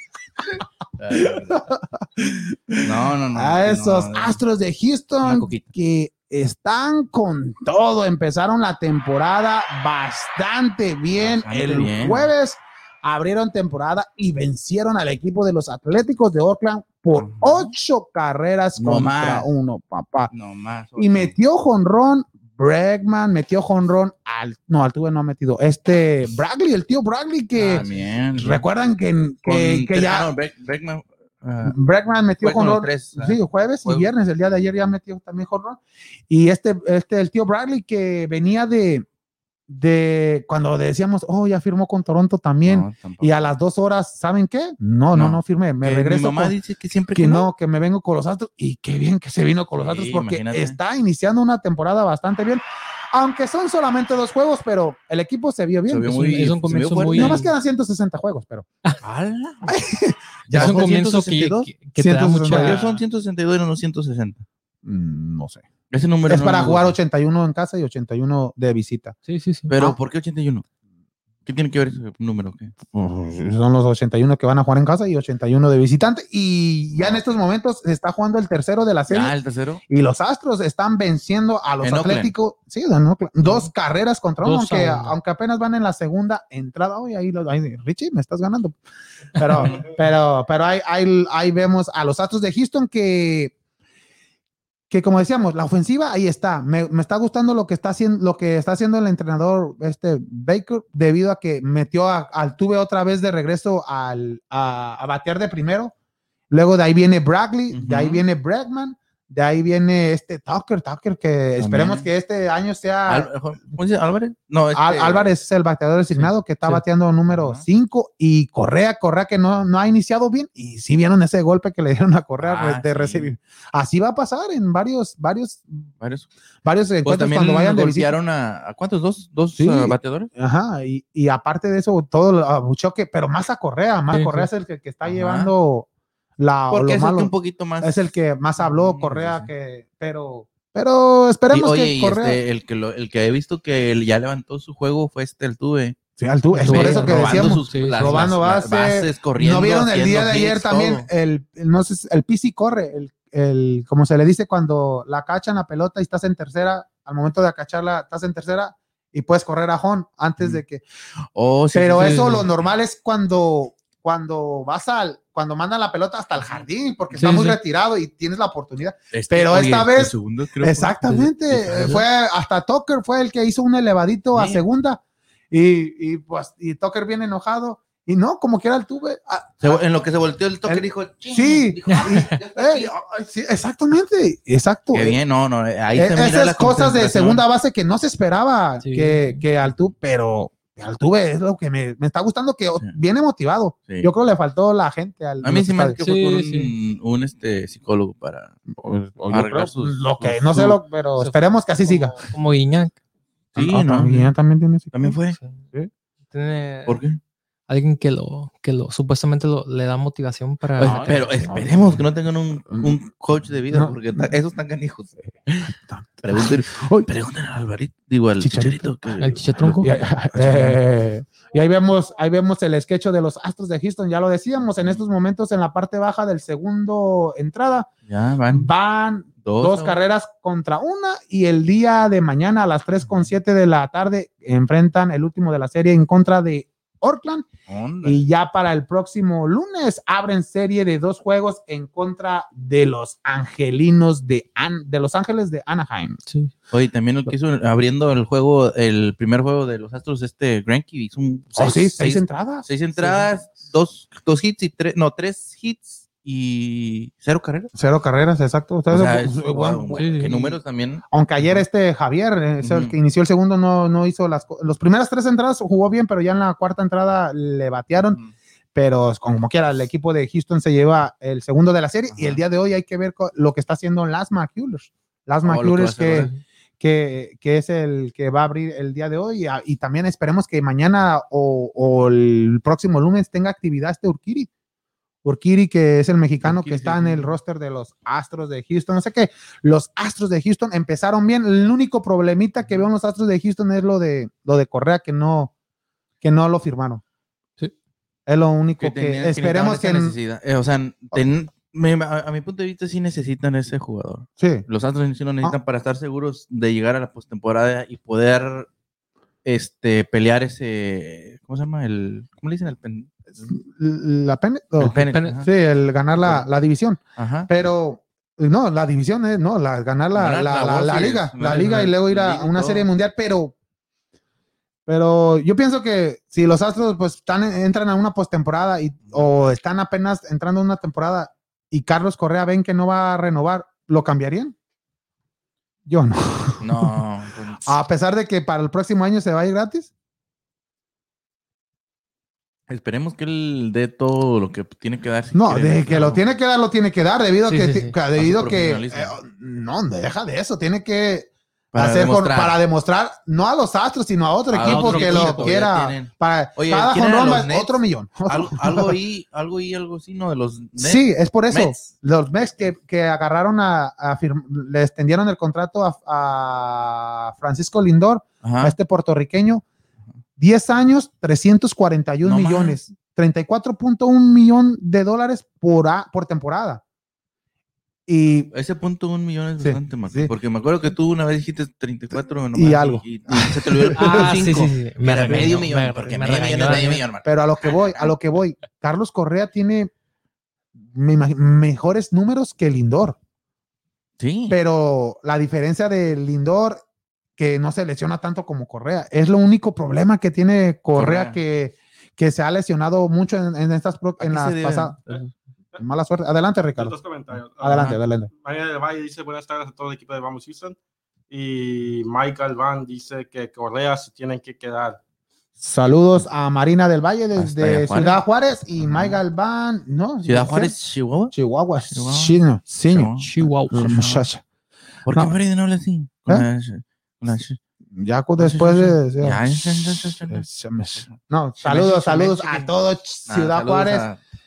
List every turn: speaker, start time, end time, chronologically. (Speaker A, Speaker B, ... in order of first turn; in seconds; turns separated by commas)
Speaker A: 0.6-20.3, Speaker B: 1.0-1.6, Speaker B: 2.8-4.4, Speaker B: 5.2-5.7, Speaker B: 11.2-12.3, Speaker B: 17.2-17.7, Speaker B: 18.8-19.5, Speaker B: 20.3-21.3, Speaker A: 21.0-27.9, Speaker B: 27.6-28.6, Speaker A: 28.4-30.3, Speaker B: 29.5-31.8, Speaker A: 31.6-39.0, Speaker B: 32.4-34.1, Speaker A: 39.7-46.5, Speaker B: 42.6-43.4, Speaker B: 45.1-47.5, Speaker A: 47.1-56.1, Speaker B: 49.8-50.8, Speaker B: 55.9-57.4, Speaker C: 56.1-57.5, Speaker A: 57.1-58.7, Speaker B: 59.0-59.7, Speaker A: 59.6-62.9, Speaker B: 60.5-61.1, Speaker C: 60.5-62.9, Speaker B: 62.5-64.5, Speaker A: 64.8-65.7, Speaker B: 65.9-67.0, Speaker A: 66.3-69.2, Speaker C: 69.3-69.7, Speaker B: 69.7-70.7, Speaker B: 71.5-72.8, Speaker A: 72.9-79.3, Speaker B: 77.0-77.2, Speaker B: 79.1-79.8, Speaker A: 79.9-88.8, Speaker B: 81.8-82.3, Speaker C: 84.4-85.2, Speaker A: 89.3-93.5, Speaker B: 89.5-89.9, Speaker A: 94.9-105.9, Speaker A: 106.5-113.3, Speaker B: 107.7-108.2, Speaker B: 111.6-112.1, Speaker B: 113.1-115.3, Speaker A: 114.7-125.9, Speaker B: 116.1-116.7, Speaker B: 117.3-117.6, Speaker B: 122.4-123.3, Speaker B: 126.0-126.3, Speaker A: 126.7-128.2, Speaker B: 127.0-130.3, Speaker A: 129.6-142.4, Speaker C: 134.1-134.5, Speaker B: 135.0-135.5, Speaker B: 136.7-139.5, Speaker B: 141.5-146.0, Speaker A: 146.2-160.8, Speaker C: 146.5-148.2, Speaker B: 146.7-151.1, Speaker B: 161.3-162.7, Speaker A: 161.7-179.8, Speaker C: 162.0-162.5, Speaker B: 166.4-166.7, Speaker C: 167.2-167.6, Speaker B: 169.1-172.0, Speaker C: 171.7-172.0, Speaker B: 174.3-174.6, Speaker B: 179.6-182.9, Speaker A: 180.7-185.2, Speaker C: 181.9-182.3, Speaker B: 184.9-187.4, Speaker A: 185.9-196.0, Speaker C: 188.8-189.4, Speaker B: 195.4-198.6, Speaker C: 196.0-196.7, Speaker A: 198.7-202.2, Speaker B: 199.3-200.8, Speaker C: 201.2-203.0, Speaker B: 203.6-204.3, Speaker A: 203.6-205.2, Speaker B: 204.9-205.4, Speaker C: 206.3-207.0, Speaker B: 206.9-207.2, Speaker C: 207.7-211.4, Speaker B: 210.8-215.1, Speaker A: 210.8-212.0, Speaker A: 212.7-212.9, Speaker A: 213.7-214.3, Speaker A: 215.2-217.1, Speaker B: 216.2-220.8, Speaker A: 218.4-227.9, Speaker C: 219.2-219.9, Speaker B: 228.1-228.7, Speaker A: 228.5-237.5, Speaker B: 229.4-230.0, Speaker B: 237.7-238.2, Speaker A: 238.0-246.2, Speaker B: 246.7-257.7, Speaker A: 251.6-252.7, Speaker C: 253.0-253.3, Speaker A: 257.7-260.6, Speaker B: 258.9-261.6, Speaker C: 260.0-260.3, Speaker A: 261.1-268.2, Speaker B: 262.6-262.9, Speaker B: 268.0-268.3, Speaker A: 268.7-284.5, Speaker B: 272.1-272.4, Speaker B: 275.4-276.3, Speaker A: 285.2-295.5, Speaker B: 286.4-287.4, Speaker A: 296.2-297.0, Speaker A: 298.3-300.2, Speaker B: 298.8-308.7, Speaker A: 304.4-304.7, Speaker B: 309.4-313.5, Speaker A: 313.4-323.6, Speaker B: 314.8-315.5, Speaker C: 315.0-315.4, Speaker B: 316.2-316.5, Speaker B: 317.2-317.5, Speaker B: 320.1-322.9, Speaker C: 321.6-321.9, Speaker A: 324.9-334.6, Speaker A: 335.9-337.0, Speaker B: 336.6-337.7, Speaker A: 337.6-339.9, Speaker B: 342.7-346.2, Speaker A: 345.3-359.0, Speaker C: 347.5-348.0, Speaker B: 348.2-349.2, Speaker B: 351.7-352.6, Speaker B: 354.5-361.9, Speaker C: 354.7-355.6, Speaker A: 360.8-369.6, Speaker B: 368.4-368.8, Speaker A: 370.4-376.8, Speaker B: 372.2-372.8, Speaker A: 378.1-378.5, Speaker B: 378.5-387.8, Speaker A: 379.6-380.3, Speaker A: 382.1-384.4, Speaker C: 383.9-387.0, Speaker A: 385.3-385.6, Speaker A: 387.2-389.9, Speaker A: 390.8-393.2, Speaker B: 394.2-394.6, Speaker A: 394.5-396.8, Speaker A: 397.4-405.0, Speaker B: 400.9-401.4, Speaker B: 404.2-405.3, Speaker A: 405.8-407.0, Speaker D: 406.8-410.8, Speaker A: 407.6-408.3, Speaker B: 407.7-408.0, Speaker D: 411.3-415.0, Speaker A: 415.6-420.8, Speaker B: 417.4-418.2, Speaker B: 418.8-419.2, Speaker B: 420.2-421.3, Speaker A: 421.3-423.2, Speaker B: 421.9-424.2, Speaker C: 423.2-424.1, Speaker A: 423.7-424.4, Speaker B: 425.1-427.6, Speaker A: 427.9-434.1, Speaker B: 428.4-430.4, Speaker B: 431.0-432.7, Speaker B: 433.3-434.2